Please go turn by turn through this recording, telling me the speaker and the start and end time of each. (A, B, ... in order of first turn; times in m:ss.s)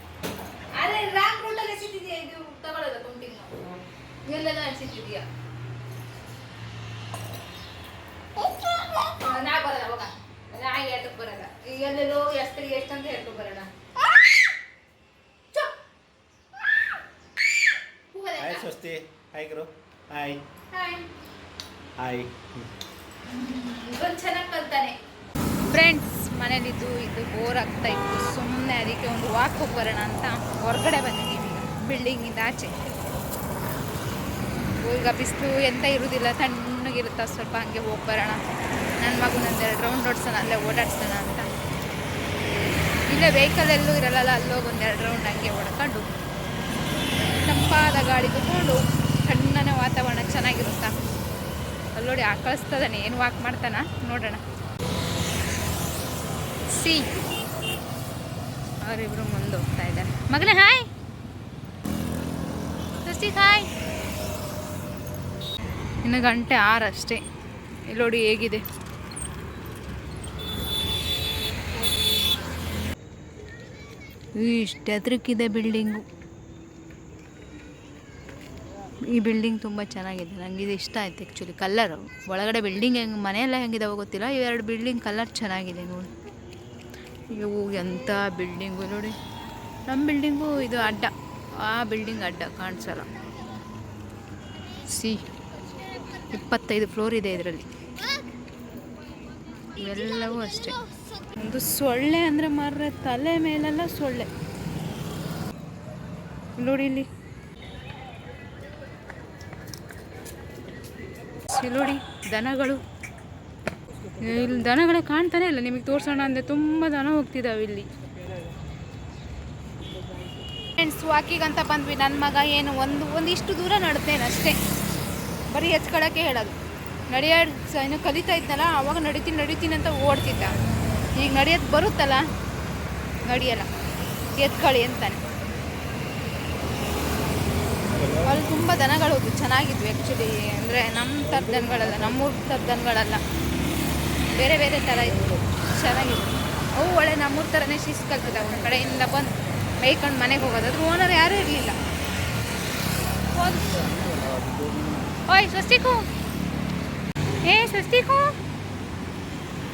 0:00.7-0:03.6 A
0:04.2-0:05.3 A
0:09.0-0:13.7 A
0:18.1-0:18.7 A
0:18.4-0:20.5 B
0:20.7-0:21.1 A
0:22.0-0:22.7 B
0:23.2-0:25.0 A
0:25.6-0:32.8 A
0:34.8-0:38.4 A
0:39.0-0:41.5 A
0:43.1-0:46.1 A
0:47.2-0:50.9 A
0:51.9-0:54.4 A
0:56.7-0:57.2 A
0:58.8-1:00.9 A
1:03.0-1:03.7 A
1:06.0-1:07.2 A
1:07.9-1:08.6 A
1:14.3-1:16.0 A
1:19.0-1:26.1 A
1:27.3-1:29.2 A
1:29.9-1:33.1 A
1:34.8-1:35.3 A
1:36.2-1:37.8 A
1:39.7-1:40.8 A
1:41.3-1:44.3 A
1:46.6-1:47.1 A
1:51.5-1:52.8 A
1:54.1-1:57.9 A
2:00.8-2:04.6 A
2:05.5-2:06.6 A
2:07.1-2:10.6 A
2:11.1-2:12.3 A
2:13.2-2:13.7 A
2:14.3-2:15.2 A
2:17.9-2:18.3 B
2:18.2-2:23.2 A
2:24.3-2:31.8 A
2:33.3-2:33.8 A
2:33.8-2:35.1 B
2:35.3-2:36.1 A
2:37.4-2:38.3 A